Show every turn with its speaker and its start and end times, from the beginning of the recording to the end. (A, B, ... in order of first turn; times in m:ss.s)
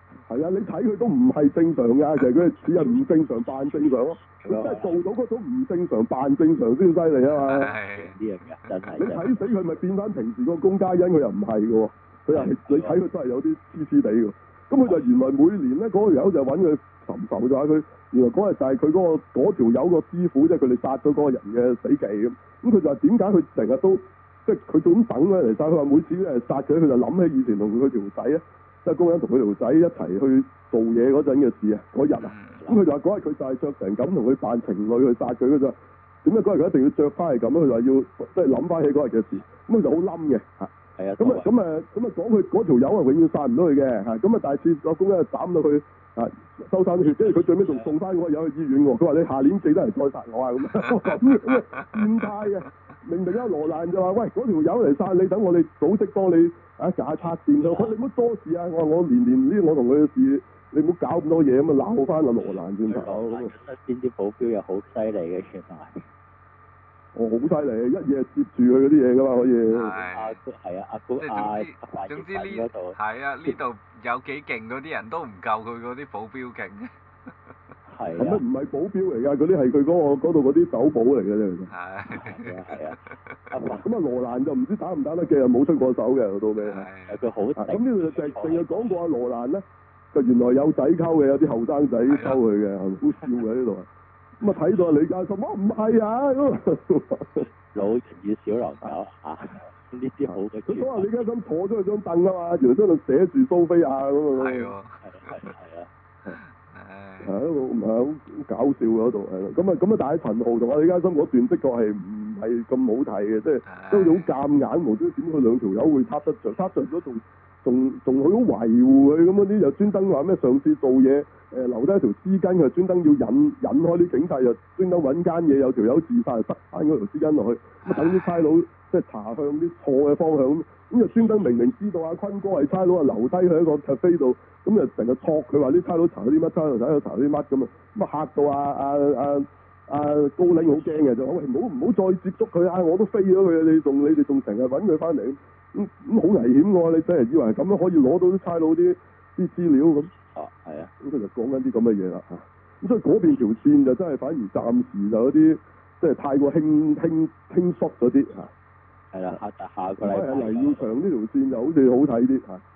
0:00.3-0:07.7 A
0:03.7-0:05.0 B
0:07.3-0:08.2 C
0:07.9-0:09.3 B
0:09.0-1:03.5 A
0:12.3-0:13.0 B
0:32.2-0:32.6 C
0:32.5-0:32.8 B
0:41.0-0:41.5 B
0:47.2-0:47.9 B
0:50.8-0:52.2 C
0:57.6-0:57.9 B
1:02.4-1:06.0 B
1:07.2-1:10.0 A
1:09.7-1:10.4 C
1:10.1-1:13.6 B
1:11.2-1:17.6 C
1:17.9-1:18.4 B
1:18.2-1:21.7 A
1:21.7-1:23.5 C
1:22.1-1:23.8 B
1:23.8-1:26.9 A
1:26.6-1:27.2 C
1:27.1-1:29.0 B
1:27.6-1:33.9 A
1:32.1-1:32.4 C
1:34.4-1:37.5 A
1:37.7-1:41.2 B
1:40.3-1:44.7 A
1:44.3-1:45.4 C
1:45.0-1:45.9 B
1:46.4-1:47.3 C
1:47.2-2:30.1 A
1:53.7-1:54.3 C
2:07.8-2:08.5 C
2:30.1-2:30.9 B
2:31.0-2:38.5 A
2:39.1-2:40.9 B
2:40.0-2:42.6 A